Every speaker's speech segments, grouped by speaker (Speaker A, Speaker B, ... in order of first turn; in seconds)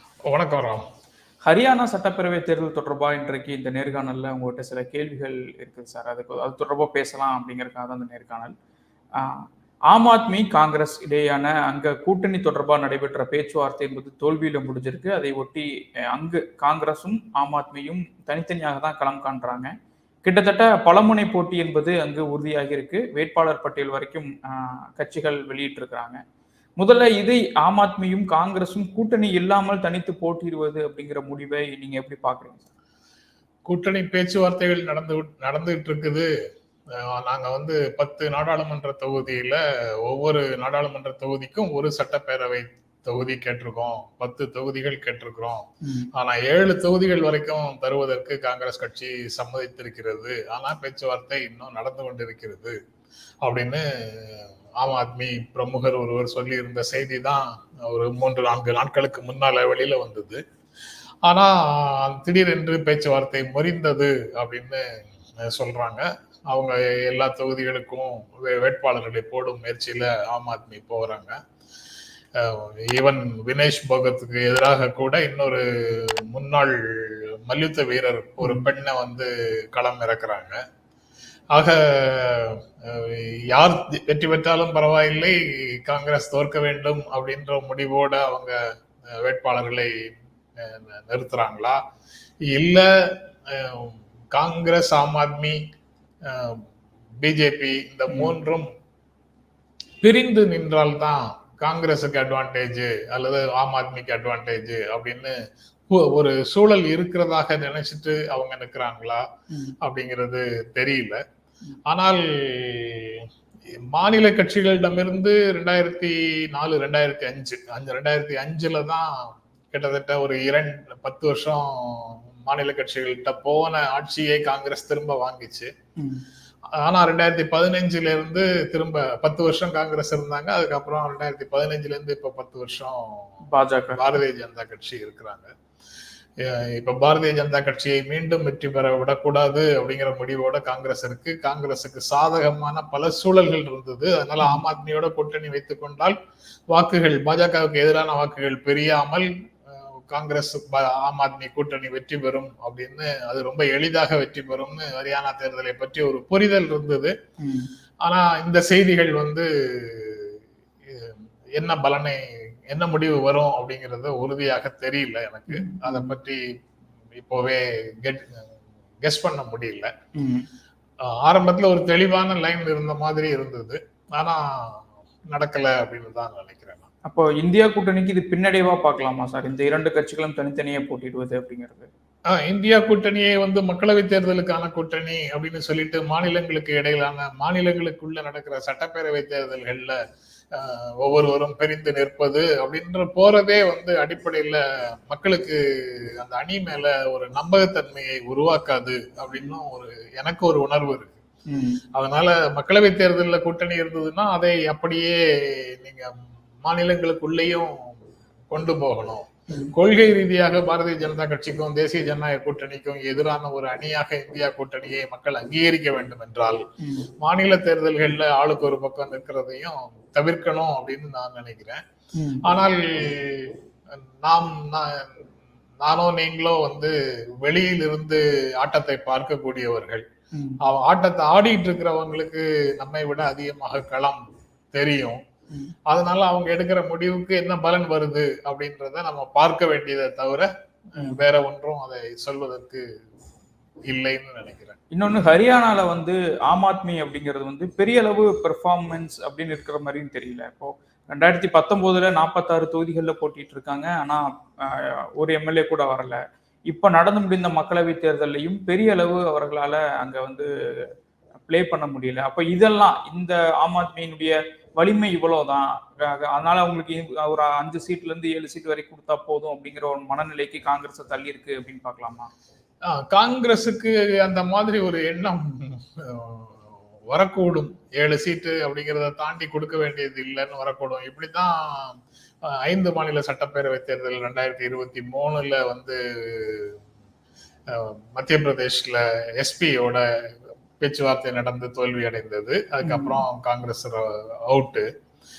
Speaker A: 0.3-0.8, 33.7-36.3, 36.9-52.8, 53.4-60.4, 61.2-64.9, 65.4-71.3, 72.4-80.6, 81.5-88.6, 89.1-91.8, 92.5-95.6, 96.3-96.6, 97.2-98.7, 100.0-105.3, 105.9-109.2, 109.8-111.2, 111.9-113.3, 113.9-125.7, 126.8-133.3, 133.9-135.5, 136.4-146.2, 146.7-157.1, 158.0-166.4, 167.2-168.4, 169.0-169.9, 171.0-176.9, 182.3-190.0, 190.5-201.2, 201.9-207.9, 208.5-216.6, 217.2-221.8, 222.4-223.6, 224.2-225.2, 225.8-230.0, 230.6-234.2, 234.7-235.2, 235.9-242.8, 243.9-244.8, 272.9-286.8, 287.7-290.0, 290.8-294.9
Speaker B: 1.4-8.6, 9.2-19.7, 20.2-26.2, 26.8-32.7, 45.8-46.1, 78.4-78.7, 98.1-98.4, 109.5-109.8, 126.0-126.2, 133.5-134.2, 157.4-157.7, 165.5-166.2, 170.2-170.5, 177.1-181.9, 201.5-201.8, 209.5-209.7, 216.8-217.1, 222.2-222.5, 230.3-230.6, 241.0-241.2, 244.9-260.9, 261.5-272.3, 292.8-293.2